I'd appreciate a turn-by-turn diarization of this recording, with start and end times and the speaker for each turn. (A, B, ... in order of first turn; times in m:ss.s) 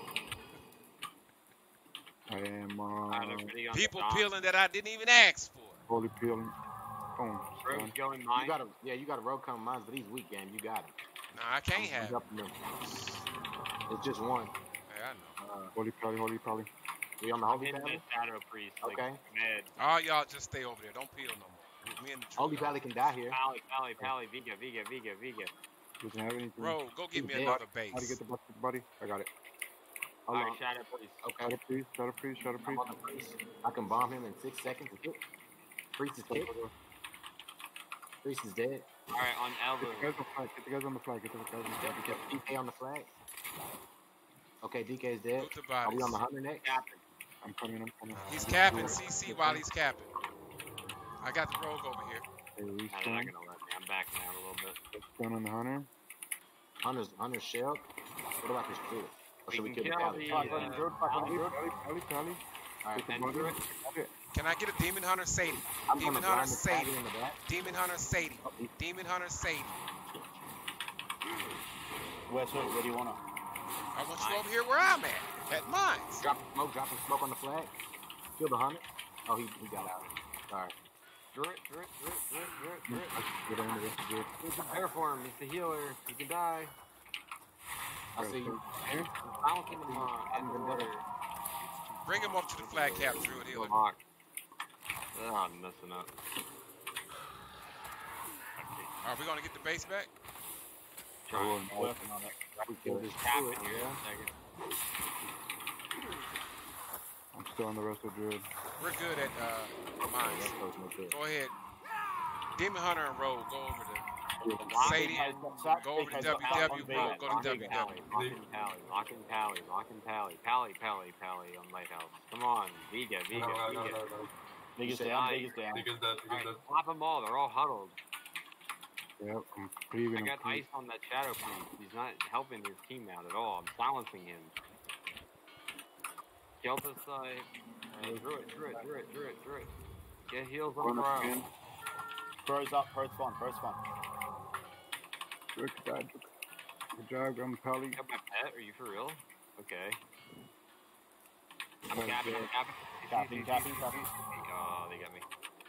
0:02.3-0:03.5 A
0:03.1-0:04.4 B
0:03.7-0:05.8 C
0:05.9-0:06.5 A
0:07.2-0:08.0 A
0:07.6-0:08.7 B
0:08.4-0:11.0 D
0:11.3-0:12.2 C
0:11.8-0:12.6 D
0:12.8-0:13.2 C
0:13.9-0:14.6 D
0:14.9-0:15.4 C
0:15.4-0:15.7 D
0:15.8-0:16.7 A
0:17.2-0:18.0 D
0:17.5-0:19.7 B
0:18.8-0:19.2 D
0:19.8-0:23.1 C
0:22.4-0:23.4 D
0:23.3-0:25.5 B
0:26.0-0:29.3 A
0:26.6-0:28.2 C
0:27.2-0:27.6 D
0:30.3-0:30.6 A
0:30.3-0:31.3 B
0:31.2-0:31.5 D
0:31.4-0:33.0 A
0:32.6-0:35.2 D
0:35.9-0:36.6 D
0:36.3-0:36.7 A
0:38.2-0:38.9 D
0:39.1-0:40.2 B
0:39.8-0:42.3 A
0:41.8-0:43.1 D
0:44.6-0:46.8 D
0:45.4-0:46.2 C
0:46.6-0:47.0 B
0:47.4-0:49.6 A
0:48.1-0:50.1 C
0:51.2-0:52.2 C
0:52.6-0:53.3 A
0:52.9-0:54.8 B
0:54.9-0:55.9 A
0:56.8-0:57.9 D
0:58.4-1:01.3 D
0:59.5-1:01.4 B
1:00.2-1:01.6 E
1:01.2-1:02.4 A
1:02.8-1:03.1 D
1:03.0-1:04.1 A
1:03.0-1:03.6 B
1:04.3-1:06.9 C
1:05.9-1:07.4 D
1:07.4-1:09.8 C
1:08.4-1:08.7 D
1:12.3-1:13.2 E
1:13.9-1:16.2 C
1:14.2-1:14.5 B
1:16.2-1:17.7 D
1:18.4-1:20.7 D
1:21.3-1:23.2 B
1:22.9-1:24.3 A
1:24.4-1:24.8 D
1:24.6-1:26.7 B
1:28.2-1:28.6 D
1:28.2-1:29.1 A
1:29.2-1:31.0 B
1:29.7-1:30.9 D
1:32.0-1:33.8 C
1:32.6-1:33.2 D
1:32.9-1:34.0 B
1:35.1-1:36.1 B
1:39.0-1:40.1 C
1:41.3-1:41.7 B
1:41.3-1:43.1 A
1:41.8-1:42.3 E
1:42.6-1:44.0 D
1:43.2-1:44.3 B
1:47.3-1:48.5 A
1:48.8-1:50.6 C
1:50.1-1:51.2 D
1:51.1-1:51.5 C
1:52.6-1:54.1 C
1:54.4-1:54.8 A
1:54.6-1:57.8 E
1:54.6-2:04.1 B
1:54.8-1:57.9 C
1:58.1-1:58.5 F
2:03.3-2:04.3 F
2:04.8-2:05.9 E
2:04.8-2:05.2 D
2:05.0-2:08.0 B
2:05.7-2:06.7 F
2:09.2-2:10.7 A
2:10.1-2:14.5 B
2:16.6-2:19.7 B
2:18.0-2:18.3 A
2:20.3-2:21.4 B
2:20.8-2:21.5 A
2:22.4-2:23.8 E
2:25.6-2:26.3 A
2:27.0-2:28.0 A
2:28.0-2:30.0 B
2:31.9-2:35.3 B
2:31.9-2:32.5 A
2:33.1-2:34.0 E
2:33.4-2:34.1 A